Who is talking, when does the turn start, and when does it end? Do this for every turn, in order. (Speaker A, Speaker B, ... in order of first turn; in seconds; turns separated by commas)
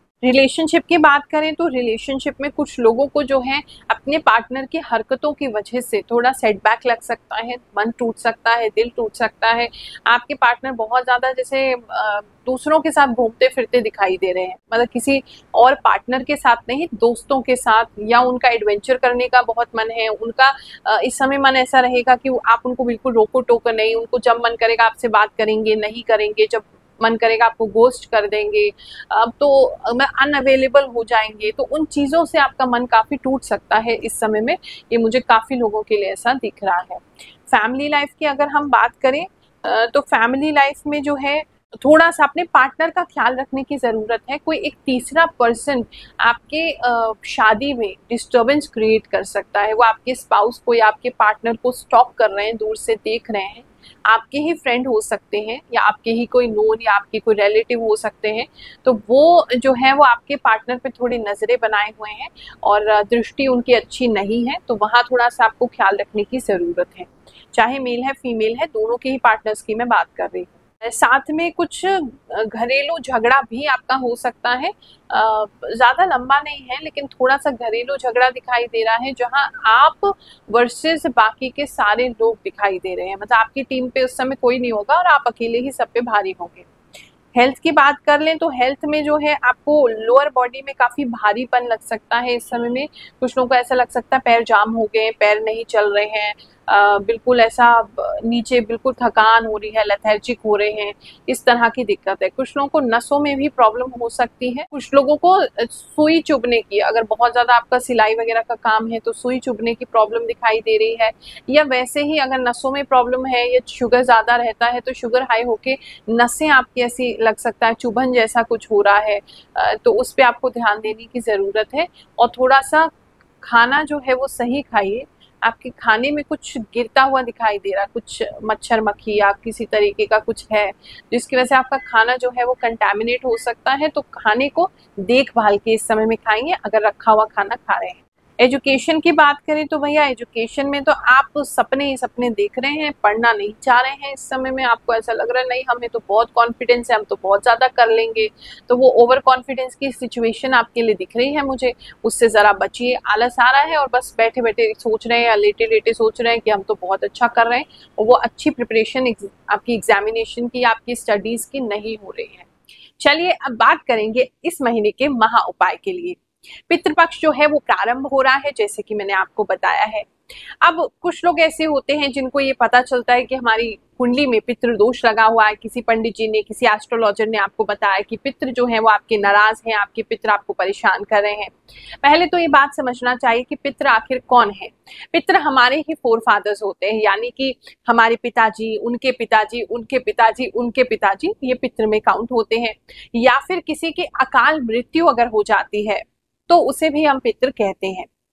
Speaker A: 0.2-86.7, Speaker A: 87.3-122.9, Speaker A: 123.4-162.5, Speaker A: 163.0-170.1, Speaker A: 170.6-198.1